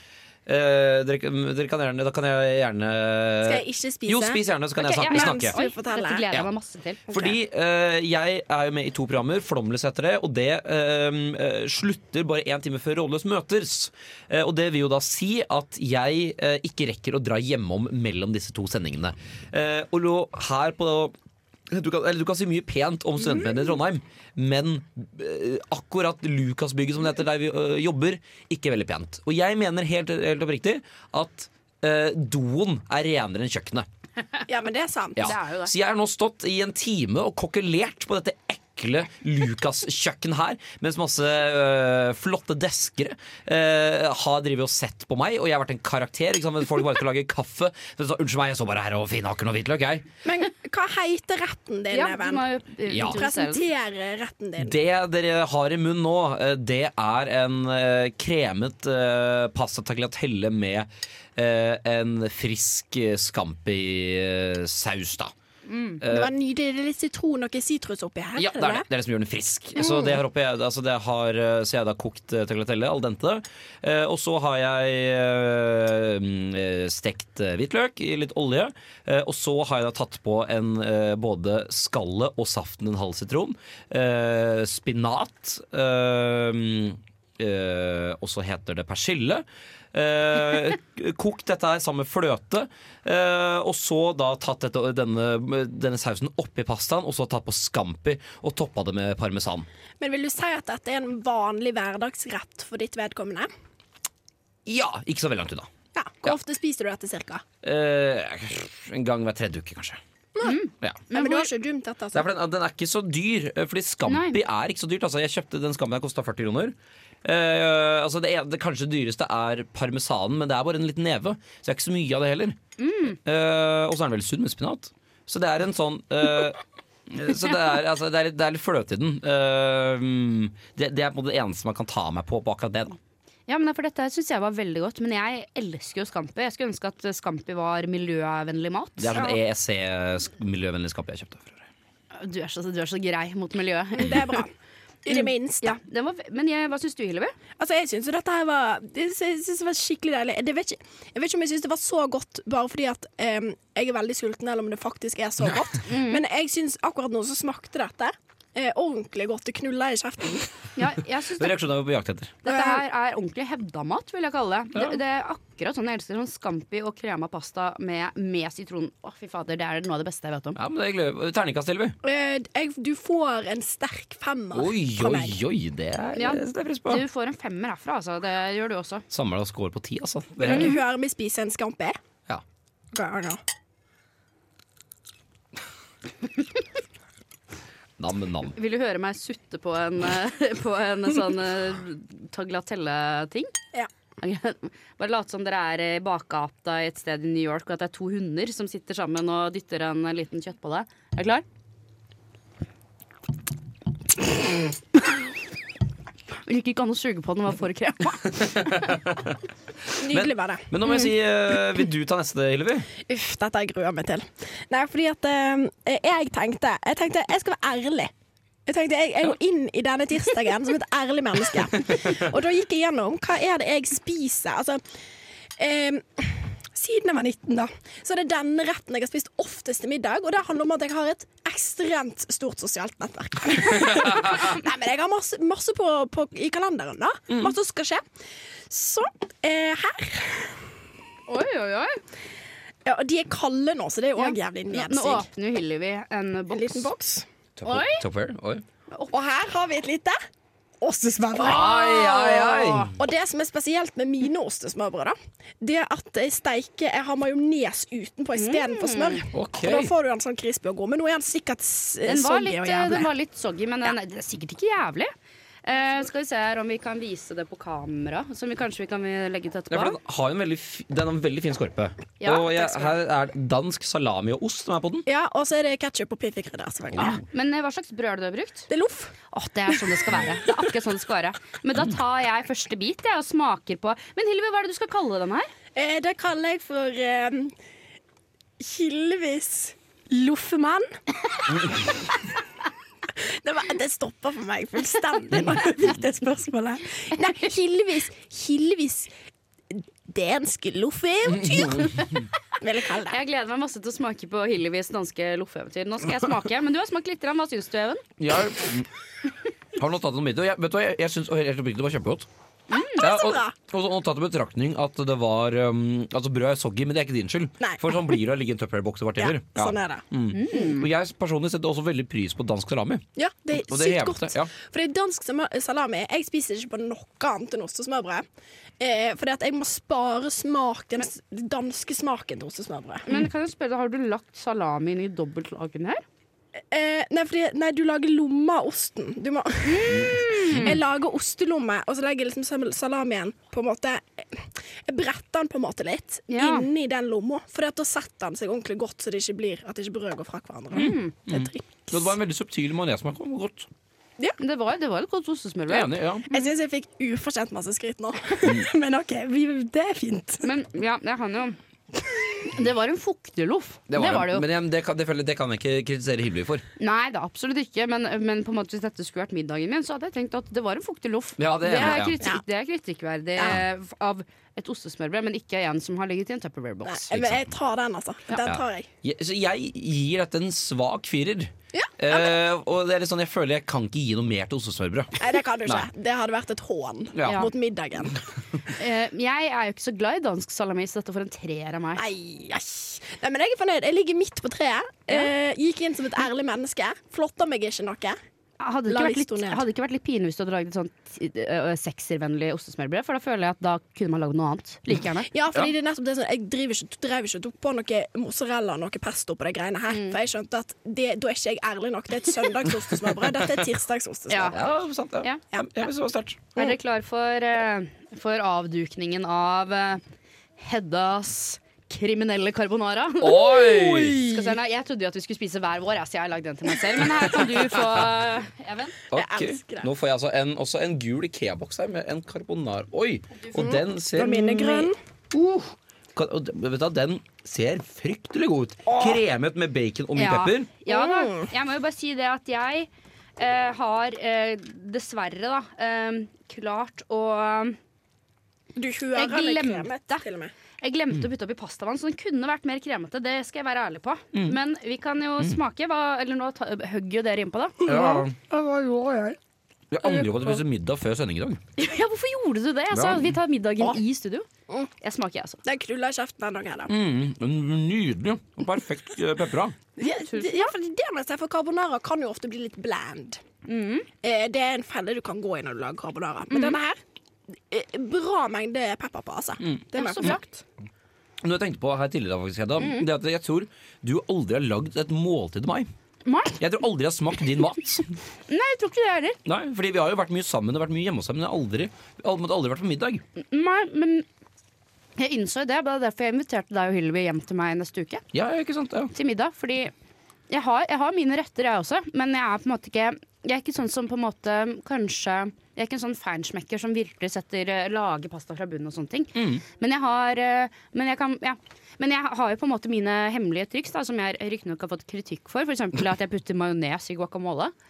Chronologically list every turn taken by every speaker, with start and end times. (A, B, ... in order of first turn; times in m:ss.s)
0:00.4-0:05.5 A
0:03.4-0:04.4 B
0:04.8-0:07.3 C
0:05.1-0:06.2 B
0:07.1-0:21.1 A
0:21.7-0:33.8 A
0:34.5-0:35.3 B
0:35.2-0:50.1 A
0:35.2-0:35.7 C
0:50.2-0:54.8 B
0:51.9-0:53.6 C
0:52.9-0:53.2 A
0:54.6-1:05.3 A
1:05.7-1:06.0 C
1:06.0-1:06.3 A
1:06.1-1:08.8 B
1:08.4-1:39.7 A
1:09.8-1:10.2 B
1:40.0-1:43.5 B
1:44.6-1:45.7 A
1:45.9-1:47.4 B
1:47.6-1:50.0 A
1:50.3-1:50.6 B
1:50.4-1:51.5 C
1:51.1-1:52.3 B
1:52.1-2:02.6 A
1:54.1-1:54.4 C
2:02.8-2:03.2 C
2:03.1-2:13.0 A
2:13.5-2:19.4 C
2:19.0-2:21.6 A
2:22.1-2:24.4 C
2:24.0-2:24.5 B
2:25.0-2:25.7 B
2:25.1-2:27.3 C
2:27.6-2:40.6 B
2:35.9-2:36.2 C
2:40.8-2:41.6 C
2:41.4-2:42.3 A
2:42.4-2:50.6 C
2:42.4-2:42.8 B
2:50.6-2:52.0 A
2:52.0-2:55.4 B
2:54.5-2:57.0 A
2:56.1-2:59.0 C
2:59.1-3:00.8 A
3:00.4-3:02.0 B
3:00.5-3:00.8 C
3:02.9-3:03.4 B
3:08.0-3:08.6 A
3:08.6-3:13.5 C
3:14.2-3:21.4 C
3:26.4-3:29.0 C
3:28.5-3:29.4 A
3:30.0-3:30.7 B
3:30.0-3:32.9 A
3:33.0-3:38.1 B
3:38.6-3:44.8 B
3:45.6-3:58.0 B
3:58.7-4:00.7 B
4:01.3-4:02.0 C
4:02.8-4:05.3 B
4:04.2-4:06.9 C
4:06.5-4:07.2 B
4:07.6-4:08.6 A
4:07.6-4:08.0 C
4:09.1-4:10.2 B
4:10.8-4:12.0 B
4:11.3-4:13.0 A
4:11.5-4:12.9 C
4:13.0-4:23.1 B
4:18.4-4:19.2 C
4:19.3-4:19.9 A
4:22.0-4:25.1 C
4:25.6-4:30.0 C
4:29.7-4:35.0 A
4:32.2-4:32.9 C
4:35.1-4:37.2 B
4:36.9-4:37.2 A
4:37.0-4:38.7 C
4:38.7-4:39.1 B
4:39.3-4:45.5 C
4:45.7-4:47.5 B
4:48.6-4:51.0 B
4:51.5-4:51.8 A
4:53.2-4:59.1 B
4:59.7-5:02.0 B
5:01.3-5:02.2 A
5:02.6-5:03.2 B
5:03.1-5:08.0 C
5:08.2-5:08.9 A
5:09.7-5:12.3 A
5:12.7-5:13.0 C
5:13.0-5:13.6 B
5:13.0-5:24.5 A
5:17.6-5:17.9 B
5:19.2-5:20.0 B
5:20.3-5:20.8 C
5:23.2-5:28.2 B
5:28.8-5:33.2 B
5:33.0-5:36.0 C
5:36.7-5:52.1 B
5:39.6-5:40.8 C
5:46.3-5:46.7 C
5:50.7-5:51.1 C
5:50.7-5:53.7 A
5:54.4-5:56.5 C
5:55.7-5:56.3 A
5:56.3-6:00.4 B
6:00.4-6:01.6 C
6:02.3-6:04.4 C
6:03.9-6:06.6 A
6:06.8-6:17.1 C
6:11.4-6:12.2 A
6:11.7-6:12.4 B
6:16.8-6:18.9 B
6:17.1-6:17.4 A
6:18.4-6:25.9 A
6:21.7-6:22.3 B
6:25.2-6:28.2 B
6:27.1-6:27.4 A
6:27.2-6:27.5 C
6:28.8-6:32.0 C
6:32.0-6:38.2 B
6:38.6-6:45.3 C
6:38.9-6:39.6 B
6:45.3-6:54.6 B
6:49.9-6:50.2 C
6:54.3-6:54.6 C
6:54.4-6:56.4 A
6:56.5-7:00.0 C
7:00.6-7:09.0 C
7:03.2-7:04.4 A
7:07.4-7:07.8 A
7:09.1-7:09.9 B
7:09.1-7:20.7 A
7:13.6-7:15.0 B
7:18.9-7:19.2 B
7:20.2-7:27.8 C
7:20.9-7:21.5 B
7:28.8-7:30.5 B
7:29.1-7:30.2 C
7:30.8-7:38.2 C
7:37.8-7:38.4 A
7:38.6-7:39.4 B
7:39.9-7:41.6 A
7:41.8-7:44.5 C
7:42.9-7:43.3 A
7:45.0-7:45.6 C
7:45.6-7:46.9 B
7:46.9-7:49.8 A
7:50.0-7:53.4 B
7:50.0-7:50.7 C
7:53.7-7:54.1 C
7:54.2-7:57.0 B
7:56.5-7:56.8 C
7:57.7-8:00.6 B
7:59.6-8:00.4 A
8:00.0-8:00.4 C
8:01.4-8:05.9 A
8:06.2-8:06.6 C
8:06.6-8:08.2 A
8:08.5-8:09.4 C
8:09.4-8:13.2 A
8:13.4-8:14.2 C
8:15.2-8:18.2 C
8:18.3-8:19.1 A
8:19.1-8:19.9 C
8:20.5-8:37.7 C
8:29.4-8:29.6 A